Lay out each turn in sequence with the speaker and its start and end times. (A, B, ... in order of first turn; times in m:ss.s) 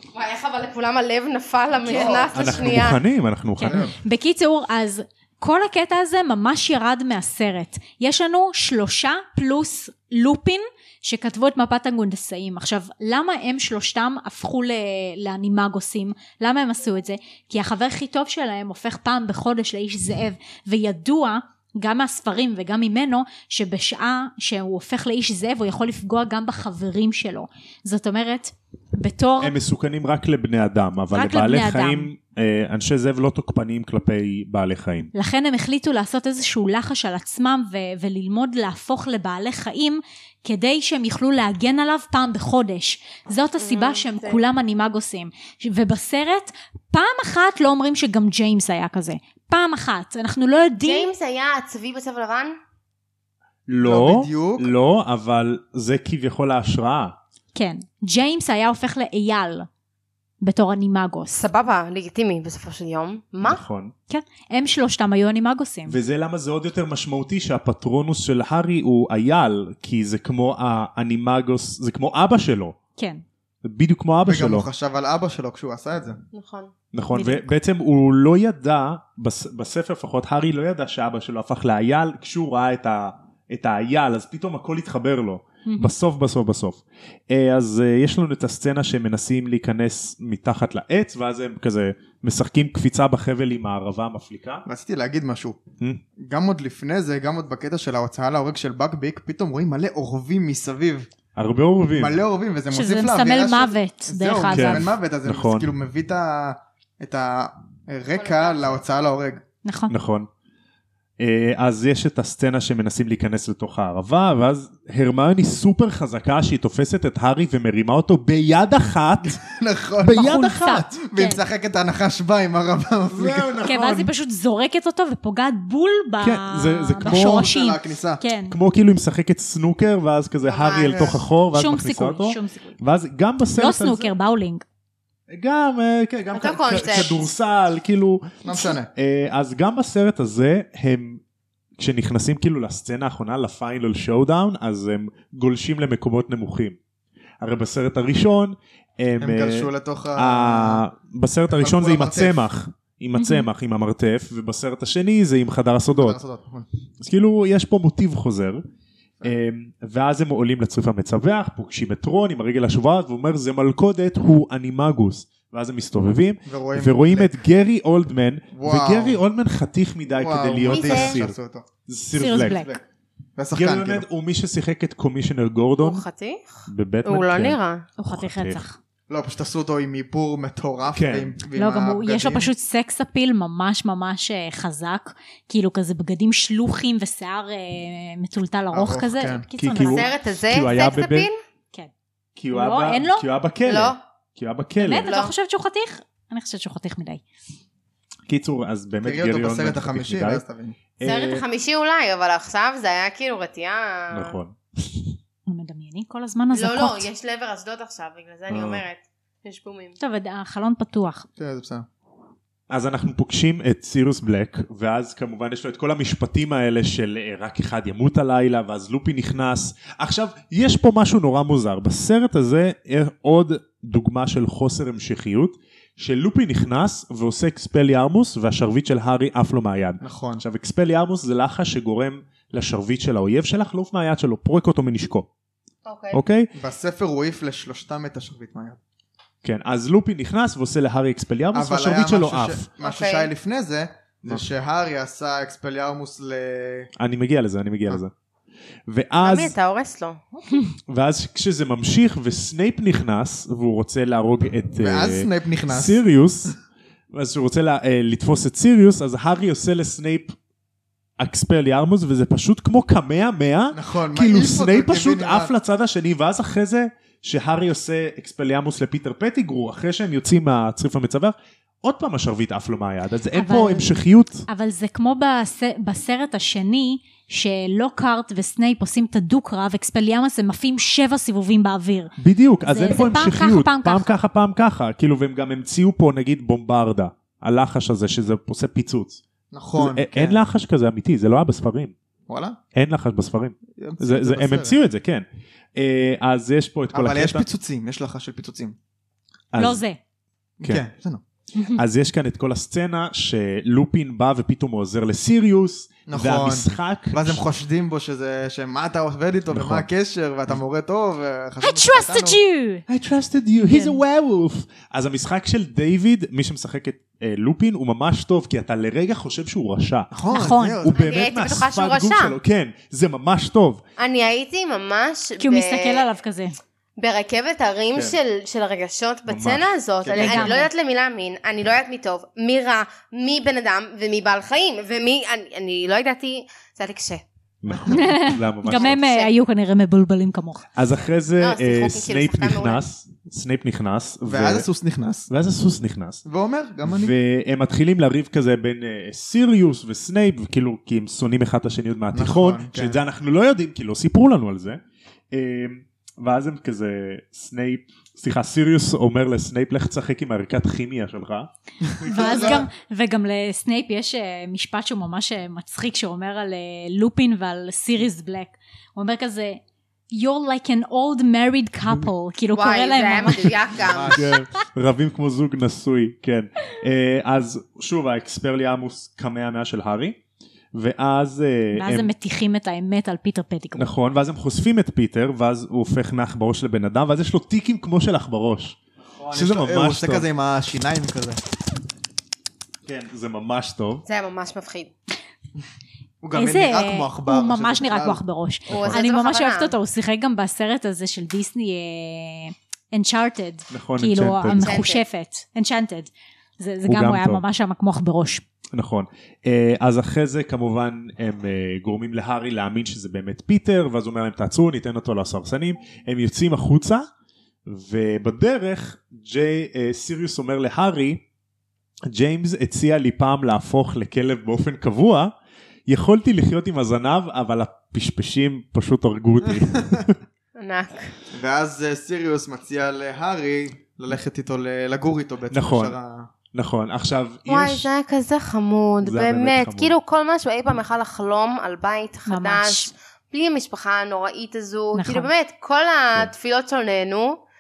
0:00.1-0:03.0 A
0:01.9-0:02.8 B
0:01.9-0:03.9 C
0:03.6-0:29.5 D
0:03.7-0:03.9 B
0:29.4-0:35.1 C
0:31.1-0:32.1 D
0:35.1-0:51.1 D
0:43.6-0:44.4 A
0:50.8-0:52.6 A
0:53.7-0:57.2 C
0:53.8-0:54.7 B
0:57.6-0:59.7 D
1:00.4-1:01.4 D
1:01.3-1:03.6 A
1:03.4-1:03.9 C
1:04.1-1:06.0 D
1:05.9-1:12.8 C
1:13.0-1:13.2 D
1:13.6-1:14.7 C
1:14.2-1:16.2 B
1:16.3-1:16.7 A
1:16.9-1:34.6 C
1:17.1-1:17.5 D
1:25.7-1:25.9 D
1:34.6-1:35.6 B
1:36.2-1:41.1 B
1:41.4-1:42.2 C
1:42.0-1:49.4 B
1:42.7-1:44.9 D
1:44.5-1:45.7 C
1:48.1-1:48.8 A
1:49.6-1:49.9 D
1:49.9-1:50.3 C
1:51.2-1:59.4 C
1:59.4-2:03.5 B
2:00.0-2:00.9 C
2:00.2-2:01.4 D
2:03.1-2:04.1 C
2:03.6-2:08.6 D
2:06.2-2:07.5 C
2:07.0-2:08.2 B
2:08.5-2:14.1 C
2:10.5-2:11.2 A
2:10.8-2:11.2 B
2:11.5-2:12.8 D
2:13.6-2:14.6 D
2:15.3-2:21.2 C
2:16.3-2:17.2 A
2:18.4-2:18.9 B
2:21.8-2:26.8 C
2:27.4-2:36.2 C
2:29.2-2:30.8 B
2:31.5-2:32.4 B
2:33.2-2:33.5 D
2:35.9-2:36.7 B
2:37.0-2:38.6 C
2:39.2-2:51.4 C
2:46.5-2:47.4 B
2:48.5-2:49.2 B
2:50.2-2:51.7 B
2:50.7-2:51.2 A
2:51.9-2:52.7 C
2:52.2-2:52.7 D
2:52.3-2:52.8 B
2:53.4-2:54.0 B
2:53.6-2:56.0 C
2:55.8-2:57.8 A
2:56.7-2:58.6 C
2:58.0-2:58.8 D
2:59.1-3:02.5 B
3:00.9-3:01.4 C
3:01.6-3:10.1 D
3:08.7-3:09.5 B
3:09.6-3:11.3 C
3:09.8-3:11.4 A
3:12.4-3:15.1 C
3:12.5-3:13.2 D
3:13.6-3:14.0 A
3:14.8-3:17.2 D
3:15.0-3:15.3 A
3:18.3-3:20.4 C
3:19.0-3:20.8 B
3:21.0-3:21.4 C
3:21.0-3:24.4 A
3:24.1-3:25.2 C
3:25.5-3:27.1 D
3:26.5-3:30.0 A
3:28.5-3:28.8 C
3:30.0-3:31.3 D
3:31.4-3:31.9 B
3:32.7-3:55.3 C
3:50.0-3:50.4 B
3:55.8-3:56.2 A
3:56.1-3:56.5 C
3:56.6-3:58.8 B
3:59.4-4:02.7 C
4:01.5-4:06.9 B
4:02.8-4:03.3 A
4:07.0-4:08.1 C
4:08.9-4:09.5 C
4:09.2-4:10.2 A
4:10.9-4:16.6 C
4:14.8-4:16.0 B
4:17.1-4:20.4 C
4:21.2-4:34.5 C
4:23.7-4:25.5 B
4:33.3-4:42.1 D
4:42.2-4:49.2 C
4:42.7-4:44.1 D
4:49.5-4:50.4 B
4:49.8-4:51.9 C
4:52.3-4:52.6 B
4:52.7-4:57.4 C
4:53.8-4:54.8 B
4:56.9-4:58.8 B
4:59.5-4:59.8 C
4:59.6-5:00.0 D
5:00.6-5:01.2 B
5:01.8-5:07.4 C
5:06.1-5:12.4 B
5:09.5-5:09.9 C
5:11.6-5:12.8 D
5:12.9-5:23.8 C
5:13.6-5:14.0 D
5:20.1-5:21.2 B
5:20.3-5:20.9 D
5:21.0-5:22.4 A
5:24.0-5:26.1 A
5:25.4-5:26.6 D
5:27.0-5:37.2 A
5:29.3-5:30.5 C
5:30.0-5:30.3 B
5:30.2-5:30.7 D
5:37.6-5:39.0 C
5:37.7-5:38.0 B
5:37.9-5:40.6 D
5:38.7-5:39.3 A
5:40.8-5:44.7 C
5:41.4-5:42.8 A
5:44.3-5:45.3 B
5:45.3-5:46.2 C
5:46.3-5:47.2 B
5:46.9-5:54.8 C
5:52.1-5:53.0 B
5:55.3-6:01.5 C
6:01.9-6:02.7 B
6:02.0-6:09.6 D
6:02.1-6:02.6 C
6:10.1-6:13.7 D
6:12.6-6:14.4 A
6:13.8-6:14.3 B
6:14.1-6:20.2 C
6:20.7-6:22.1 C
6:21.7-6:23.9 D
6:23.8-6:28.8 C
6:29.2-6:31.4 B
6:29.3-6:30.3 C
6:32.8-6:34.0 C
6:34.1-6:34.9 A
6:36.2-6:38.2 B
6:36.4-6:48.4 D
6:38.7-6:39.0 C
6:38.7-6:39.8 A
6:43.7-6:44.8 C
6:44.5-6:45.0 A
6:46.9-6:47.4 C
6:48.7-6:57.1 C
6:57.7-7:01.2 C
7:02.1-7:05.3 C
7:05.9-7:10.2 C
7:10.6-7:11.1 A
7:11.3-7:16.3 B
7:15.5-7:16.0 C
7:16.5-7:17.9 C
7:17.5-7:27.4 A
7:19.0-7:20.0 C
7:22.3-7:22.9 D
7:25.0-7:25.3 D